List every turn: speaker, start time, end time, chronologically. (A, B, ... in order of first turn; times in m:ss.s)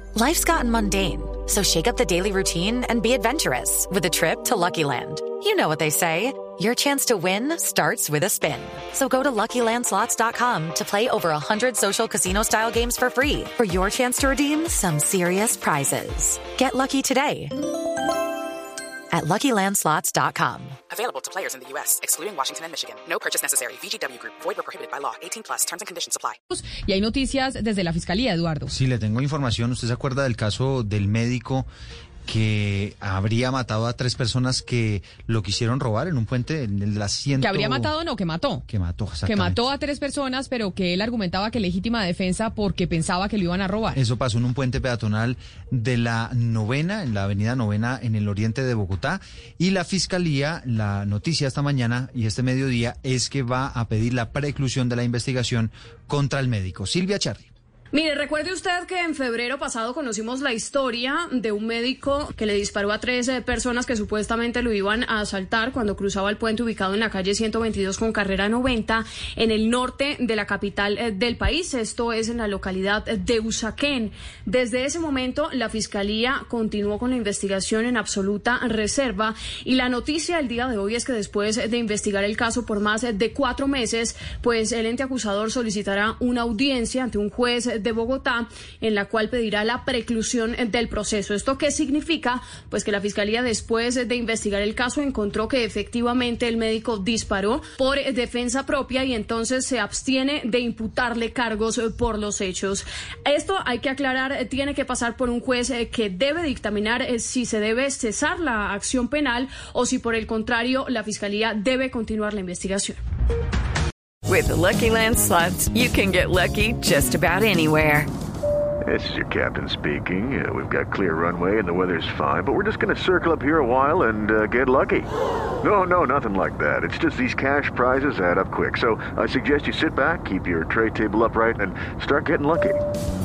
0:00.2-0:17.6 A
0:19.1-0:20.8 A
0:20.9-0:26.4 B
0:26.5-0:28.7 C
0:28.7-0:31.7 D
0:32.3-0:37.9 D
0:37.4-0:38.6 C
0:38.7-0:39.6 D
0:39.2-0:44.0 C
0:43.9-0:57.5 D
0:57.9-1:53.0 E
1:54.3-1:58.1 F
1:58.8-2:05.1 G
2:05.6-2:12.8 G